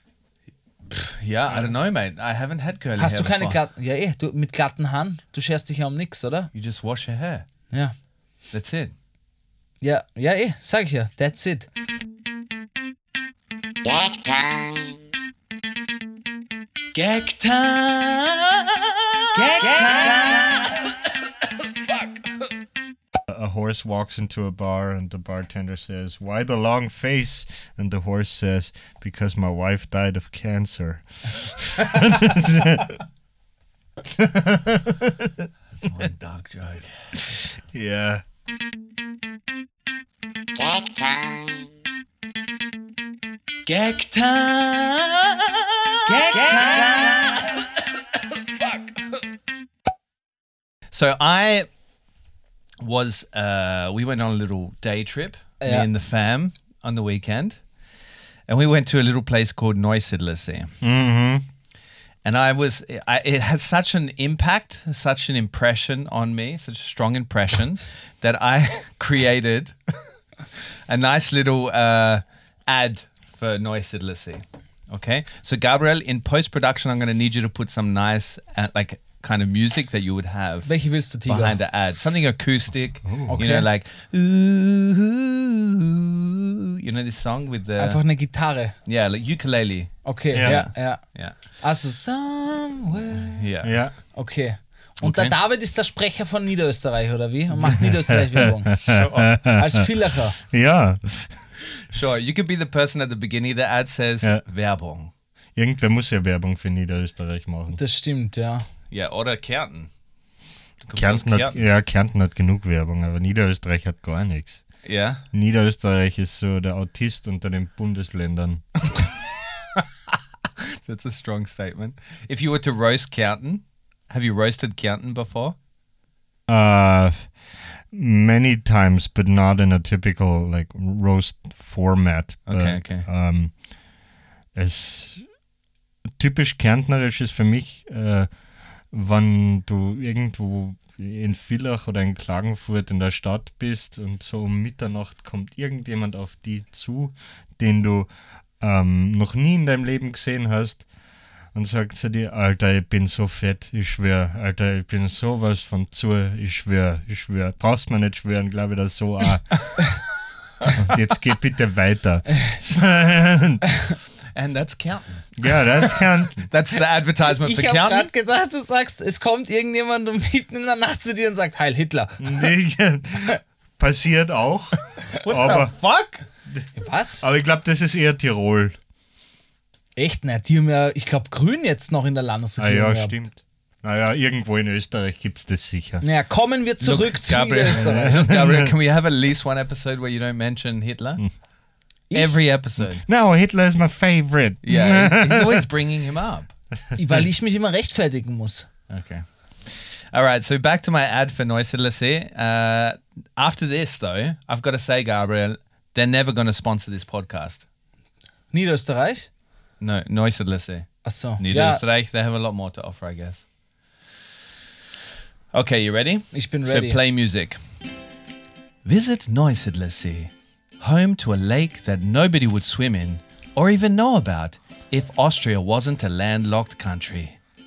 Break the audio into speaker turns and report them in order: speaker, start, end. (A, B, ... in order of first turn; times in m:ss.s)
0:00.9-0:03.6 A
0:01.5-0:01.7 B
0:03.0-0:06.5 C
0:06.5-0:07.5 A
0:08.5-0:08.9 A
0:09.8-0:11.7 C
0:13.8-0:14.7 D
0:17.0-0:17.4 D
0:17.0-0:18.6 A
0:19.4-0:20.7 A
0:19.5-0:20.7 D
0:23.3-0:33.0 B
0:34.0-0:35.5 B
0:35.8-0:36.9 A
0:37.7-0:38.2 B
0:40.6-0:41.4 D
0:43.7-0:47.6 A
0:46.1-0:47.2 C
0:46.3-0:47.3 D
0:50.9-0:51.7 A
0:52.8-0:57.6 A
0:55.6-0:55.9 C
0:58.5-1:00.7 A
1:00.8-1:01.4 B
1:02.2-1:09.8 A
1:10.9-1:20.7 A
1:20.7-1:21.6 C
1:21.3-1:28.0 A
1:23.0-1:23.3 B
1:23.3-1:23.7 C
1:27.8-1:28.8 C
1:28.8-1:31.6 A
1:30.0-1:33.4 C
1:30.3-1:30.6 B
1:33.4-1:33.8 A
1:33.6-1:33.9 B
1:34.1-1:38.8 C
1:35.0-1:35.4 A
1:37.6-1:39.8 B
1:38.7-1:39.5 A
1:39.6-1:40.4 C
1:40.4-1:41.4 B
1:41.9-1:45.1 A
1:45.6-1:47.8 B
1:47.7-1:48.7 C
1:48.9-1:49.9 A
1:50.8-1:51.6 A
1:51.0-1:54.6 B
1:54.8-1:55.2 A
1:55.3-1:58.6 B
2:00.6-2:05.6 A
2:06.5-2:07.4 B
2:07.9-2:13.6 B
2:12.5-2:13.1 A
2:14.6-2:15.2 B
2:16.2-2:18.3 B
2:18.9-2:30.9 B
2:31.5-2:40.0 B
2:40.7-2:43.6 B
2:44.3-2:48.1 A
2:45.4-2:46.4 B
2:47.4-2:52.5 C
2:52.2-2:55.7 B
2:55.2-2:56.2 A
2:56.8-2:57.2 C
2:57.2-2:58.8 B
3:00.0-3:03.2 C
3:02.6-3:06.0 B
3:06.0-3:08.3 C
3:06.8-3:11.3 A
3:07.8-3:08.7 B
3:12.1-3:12.4 C
3:12.1-3:13.0 A
3:12.8-3:15.7 B
3:14.6-3:16.5 A
3:17.0-3:18.7 C
3:18.9-3:27.6 A
3:28.5-3:29.3 C
3:29.8-3:33.5 A
3:31.0-3:31.8 C
3:35.5-3:37.6 A
3:36.3-3:37.0 C
3:38.8-3:47.4 A